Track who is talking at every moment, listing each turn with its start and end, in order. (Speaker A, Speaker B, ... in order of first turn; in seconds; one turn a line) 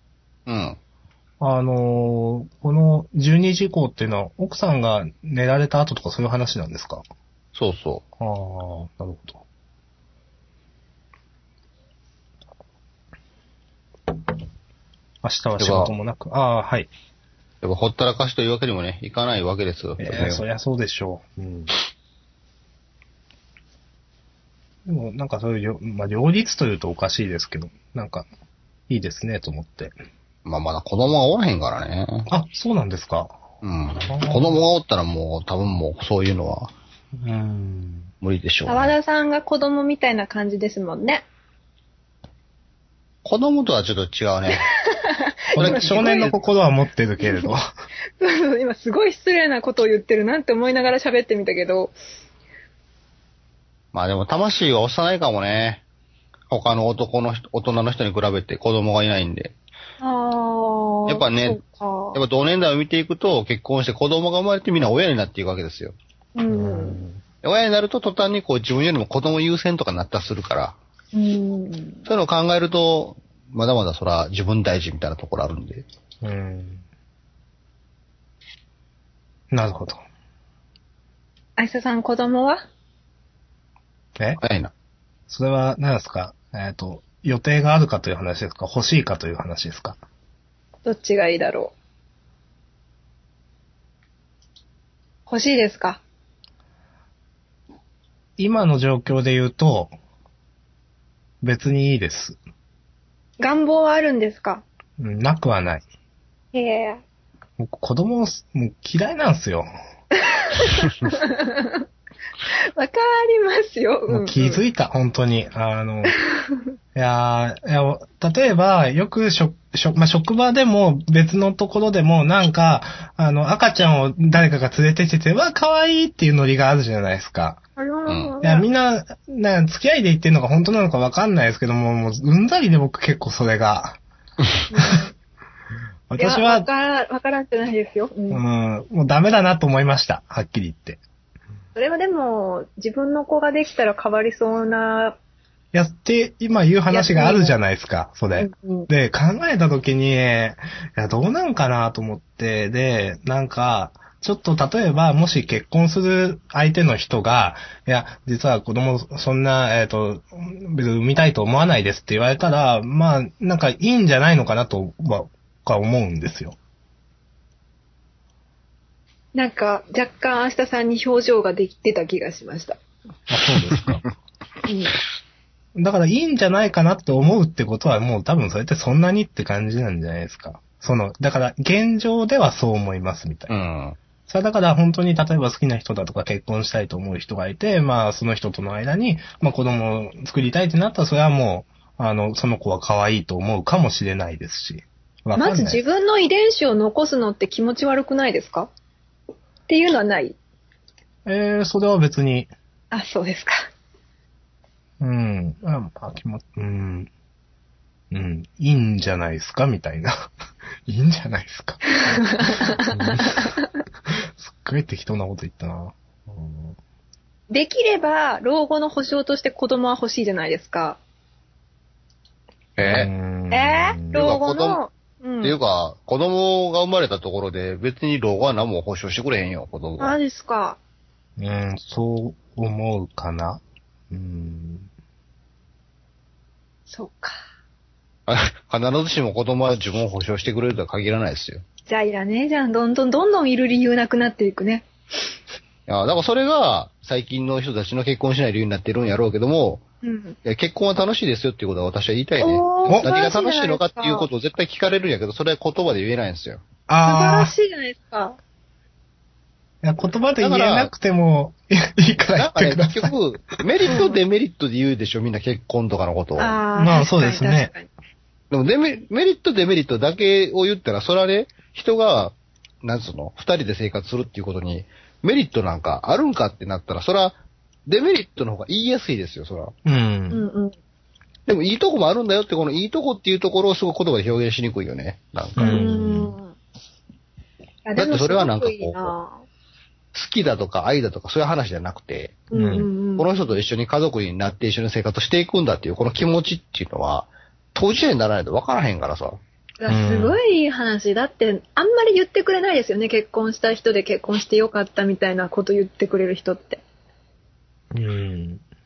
Speaker A: 0.5-0.8
Speaker B: 1.4-7.0
Speaker A: 7.5-8.0
Speaker B: 8.2-9.4
Speaker B: 15.2-16.9
Speaker A: 15.6-15.9
Speaker A: 17.6-20.4
Speaker B: 20.0-21.7
Speaker B: 24.9-28.3
Speaker B: 28.9-29.9
Speaker A: 30.4-32.3
Speaker B: 32.3-33.4
Speaker A: 33.6-36.7
Speaker B: 34.0-34.5
Speaker B: 37.2-38.1
Speaker A: 38.2-38.9
Speaker C: 38.7-41.2
Speaker A: 43.2-44.7
Speaker C: 44.5-46.3
Speaker B: 45.5-47.7
Speaker A: 45.5-46.5
Speaker C: 47.2-47.5
Speaker C: 48.2-51.9
Speaker A: 53.9-55.8
Speaker A: 56.5-59.5
Speaker C: 60.0-62.2
Speaker A: 61.1-61.6
Speaker A: 62.1-65.9
Speaker C: 66.3-67.0
Speaker B: 66.5-67.2
Speaker A: 67.4-70.8
Speaker C: 71.1-72.0
Speaker A: 72.0-75.8
Speaker B: 76.2-76.8
Speaker B: 79.5-80.0
Speaker C: 81.6-82.6
Speaker A: 84.4-84.7
Speaker B: 85.3-90.0
Speaker C: 90.8-91.7
Speaker C: 95.3-96.0
Speaker B: 98.4-99.9
Speaker B: 101.4-102.4
Speaker C: 103.4-104.6
Speaker B: 105.0-105.8
Speaker C: 106.5-107.0
Speaker B: 107.6-109.7
Speaker C: 110.3-111.8
Speaker C: 112.8-114.6
Speaker B: 114.1-116.2
Speaker C: 116.1-116.6
Speaker B: 116.9-127.6
Speaker C: 127.8-128.7
Speaker A: 128.1-128.3
Speaker B: 128.4-134.0
Speaker C: 134.7-135.1
Speaker B: 136.1-136.7
Speaker C: 136.2-138.4
Speaker B: 138.3-141.0
Speaker C: 141.7-145.2
Speaker B: 145.7-166.6
Speaker C: 146.9-147.6
Speaker C: 148.4-148.9
Speaker C: 169.3-172.8
Speaker B: 173.3-174.0
Speaker C: 174.7-174.9
Speaker B: 175.8-183.5
Speaker A: 183.5-184.0
Speaker B: 184.3-195.8
Speaker C: 195.4-198.7
Speaker C: 199.7-200.4
Speaker B: 201.2-202.5
Speaker C: 202.9-203.6
Speaker B: 205.0-207.1
Speaker B: 208.1-210.2
Speaker B: 210.8-211.8
Speaker C: 212.1-213.7
Speaker B: 212.7-216.8
Speaker C: 217.5-221.0
Speaker A: 222.8-223.1
Speaker B: 222.8-224.2
Speaker C: 223.5-225.6
Speaker A: 224.1-224.8
Speaker A: 225.4-230.2
Speaker C: 230.0-230.8
Speaker B: 231.4-233.6
Speaker B: 234.1-234.9
Speaker C: 236.9-237.4
Speaker A: 238.3-241.6
Speaker C: 241.9-244.8
Speaker A: 245.9-249.8
Speaker C: 250.0-250.4
Speaker A: 250.4-256.6
Speaker C: 252.4-254.3
Speaker B: 256.9-257.5
Speaker C: 257.0-258.4
Speaker B: 259.8-263.6
Speaker A: 260.4-260.9
Speaker A: 262.4-266.6
Speaker C: 263.9-264.2
Speaker C: 266.4-267.9
Speaker B: 266.7-267.7
Speaker A: 268.5-279.7
Speaker B: 279.8-280.4
Speaker C: 280.3-280.8
Speaker A: 281.5-285.8
Speaker B: 285.6-286.4
Speaker C: 285.6-286.6
Speaker C: 287.8-289.4
Speaker A: 288.0-289.1
Speaker A: 290.1-292.4
Speaker C: 292.5-293.3
Speaker B: 292.5-292.9
Speaker A: 293.2-299.4
Speaker C: 299.8-306.8
Speaker B: 299.9-300.4
Speaker B: 307.9-308.6